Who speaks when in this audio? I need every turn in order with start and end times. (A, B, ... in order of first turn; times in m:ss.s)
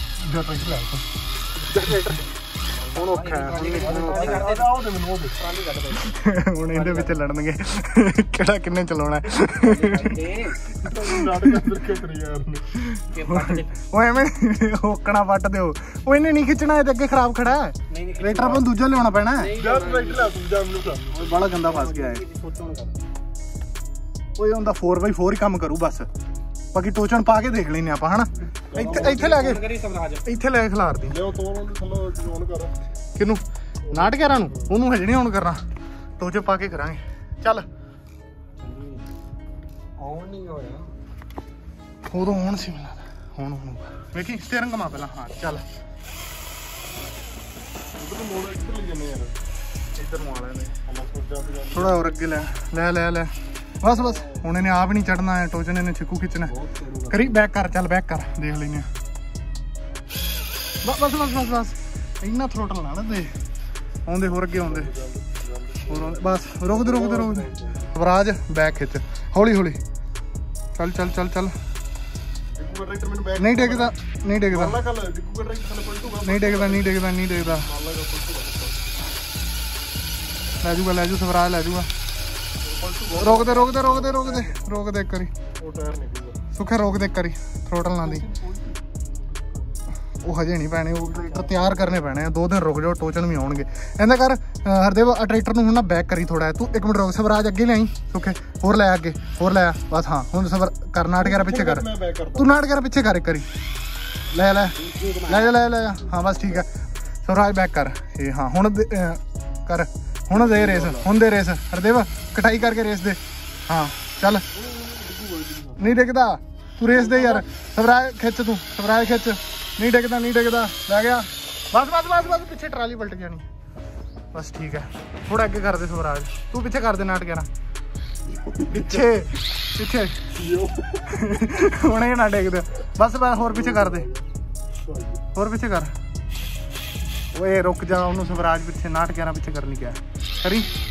0:00.2-0:01.0 A
0:01.6-0:02.2 B
0:02.7-0:04.7 C
0:02.9-0:04.4 B
0:03.7-0:05.4 A
0:05.4-0:06.1 C
0:06.0-0:10.3 B
0:06.6-0:07.2 C
0:09.6-0:10.6 C
0:10.7-0:12.7 A
0:10.8-0:11.8 B
0:12.8-0:19.5 B
0:13.1-0:13.7 C
0:17.9-0:18.7 C
0:19.4-0:20.4 C
0:19.6-0:21.2 A
0:21.1-0:22.2 B
0:21.2-0:23.0 C
0:24.4-0:26.1 B
0:26.7-0:29.7 B
0:28.4-0:29.5 A
0:28.8-0:30.2 C
0:30.2-0:31.2 B
0:31.1-0:32.7 A
0:33.2-0:35.6 B
0:33.8-0:34.8 A
0:36.2-0:37.6 B
0:38.6-0:39.1 C
0:40.0-0:40.9 C
0:42.1-0:45.6 B
0:48.0-0:49.3 A
0:50.0-0:50.8 B
0:50.8-0:52.1 A
0:51.7-0:56.5 B
0:56.4-0:57.4 A
0:57.1-0:58.8 B
1:00.8-1:03.3 B
1:04.1-1:04.9 B
1:04.6-1:07.9 A
1:05.9-1:09.8 B
1:10.7-1:11.5 B
1:12.6-1:13.9 A
1:13.4-1:14.8 B
1:14.4-1:18.8 A
1:16.2-1:17.7 B
1:20.6-1:21.9 B
1:22.6-1:24.7 A
1:23.1-1:25.3 B
1:25.6-1:26.4 A
1:26.5-1:28.2 B
1:28.0-1:29.8 A
1:30.2-1:43.4 B
1:41.2-1:42.6 A
1:44.3-1:46.7 B
1:44.7-1:45.6 C
1:46.1-1:46.6 C
1:47.2-1:54.4 B
1:50.3-1:51.1 A
1:54.5-1:55.9 A
1:55.8-2:03.4 B
1:57.0-1:57.4 A
2:04.3-2:07.5 B
2:08.7-2:10.1 B
2:10.3-2:11.3 A
2:11.1-2:14.1 B
2:13.4-2:14.3 A
2:14.8-2:15.2 A
2:15.3-2:15.9 B
2:17.3-2:20.7 B